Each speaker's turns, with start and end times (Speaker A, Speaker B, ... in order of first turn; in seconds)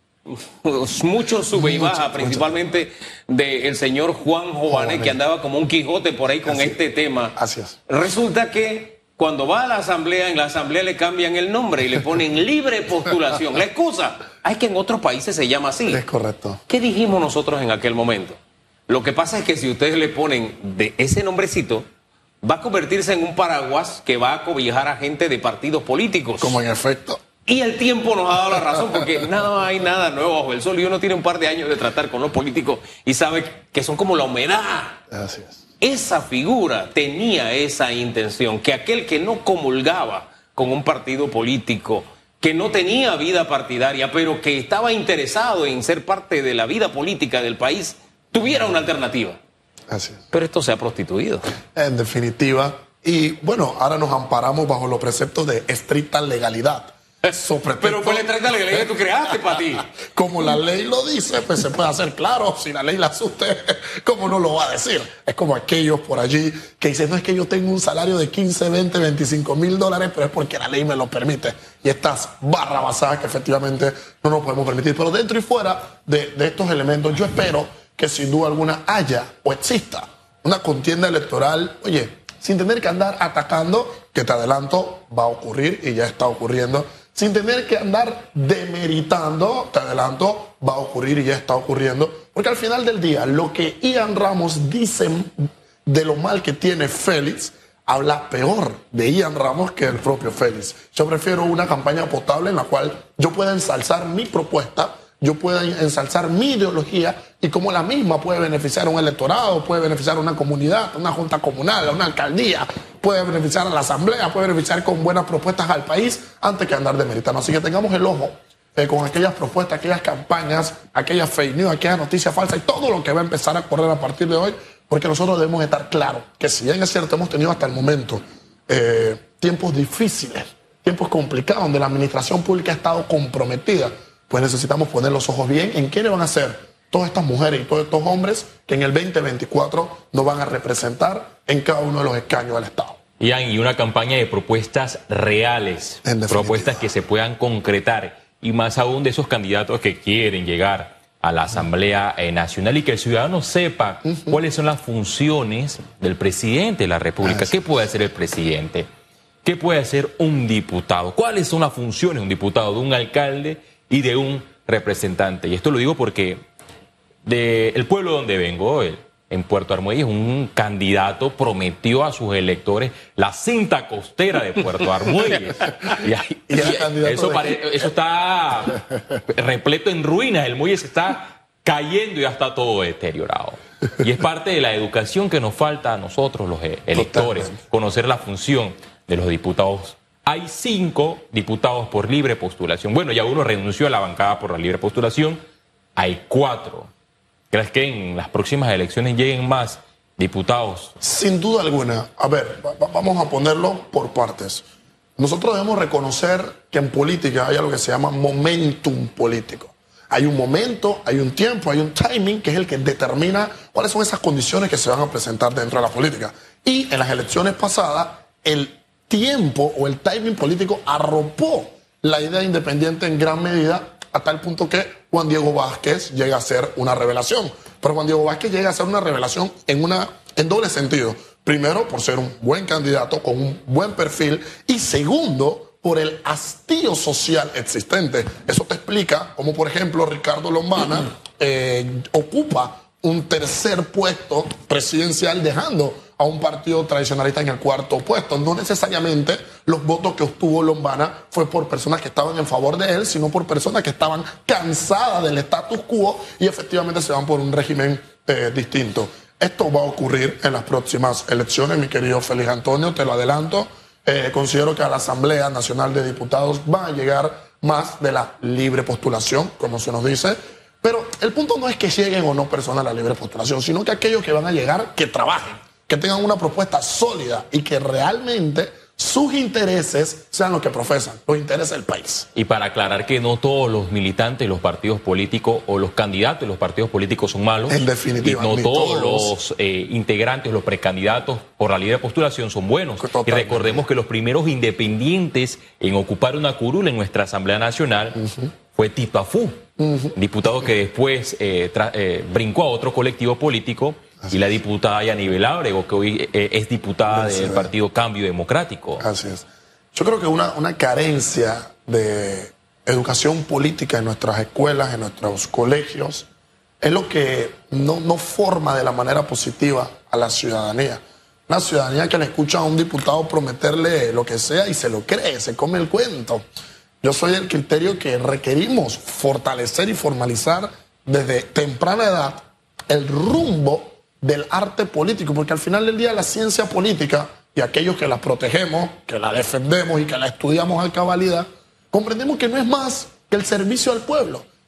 Speaker A: 0.3-7.4, 7.9-16.0, 16.7-21.9, 22.4-26.6, 27.5-35.0, 35.8-49.4, 50.3-51.5, 57.8-59.9
Speaker B: 1.5-2.6, 4.7-5.2, 6.5-6.7, 7.4-7.8, 15.9-16.6, 26.4-27.2, 35.1-35.6, 49.9-50.2, 51.8-59.0, 59.5-143.0, 146.0-146.9, 154.0-154.4, 176.5-177.9, 186.9-187.6, 201.0-204.6, 205.2-282.3, 287.7-289.3, 293.0-293.9, 298.2-298.5, 299.8-300.1, 307.1-307.7, 309.0-316.3, 316.8-326.4, 327.0-344.5
Speaker C: 143.2-158.9, 159.4-166.4, 167.2-195.4, 196.0-196.9, 197.5-200.9, 282.4-298.2, 298.7-299.5, 300.1-309.0